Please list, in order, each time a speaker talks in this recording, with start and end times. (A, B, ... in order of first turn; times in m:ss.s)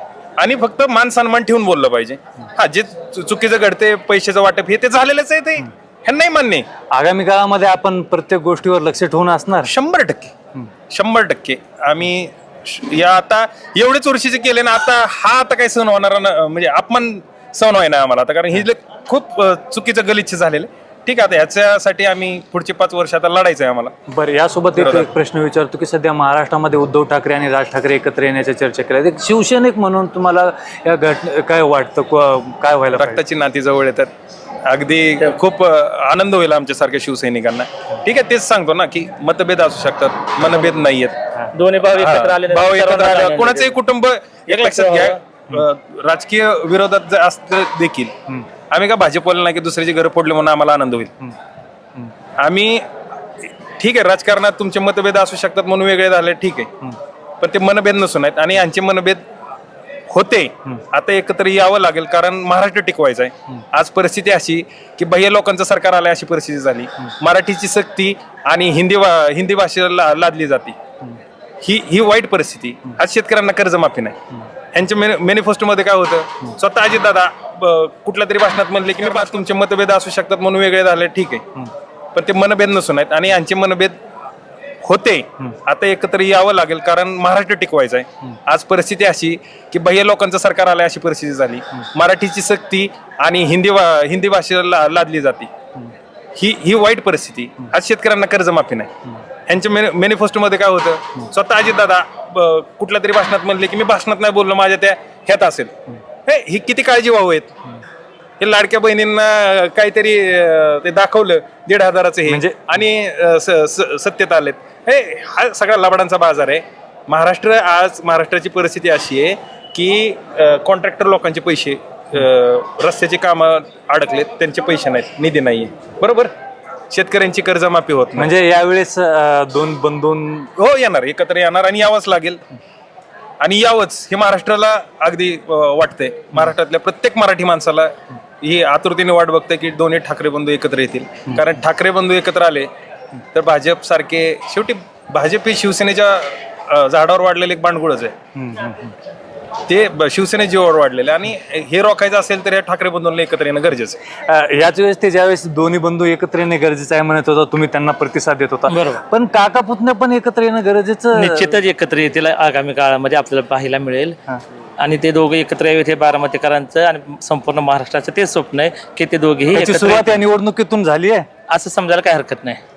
0:00.4-0:06.6 A
0:06.9-0:09.7 B
0:09.6-0:10.3 A
0:10.9-0:23.9 A
0:24.1-0:33.2 B
0:24.7-0:25.1 A
0:33.0-0:34.1 A
0:34.6-0:41.2 A
0:41.5-0:43.8 C
0:42.0-0:48.2 A
0:44.5-0:45.2 C
0:48.7-0:51.2 A
0:52.4-0:52.9 A
0:53.6-0:56.8 A
0:57.4-0:59.2 A
1:00.1-1:10.8 A
1:11.6-1:21.6 A
1:22.1-1:24.0 A
1:24.8-1:35.5 A
1:36.3-1:47.5 A
1:48.4-2:06.3 A
1:52.3-1:52.8 B
2:06.9-2:08.3 A
2:08.2-2:10.5 B
2:10.6-2:12.4 A
2:13.4-2:22.7 A
2:23.3-2:28.1 A
2:28.3-2:29.0 B
2:29.6-2:34.0 A
2:34.2-2:41.6 B
2:38.7-2:39.0 C
2:41.1-2:44.2 C
2:44.8-2:50.2 C
2:49.5-2:51.3 B
2:51.5-2:52.6 C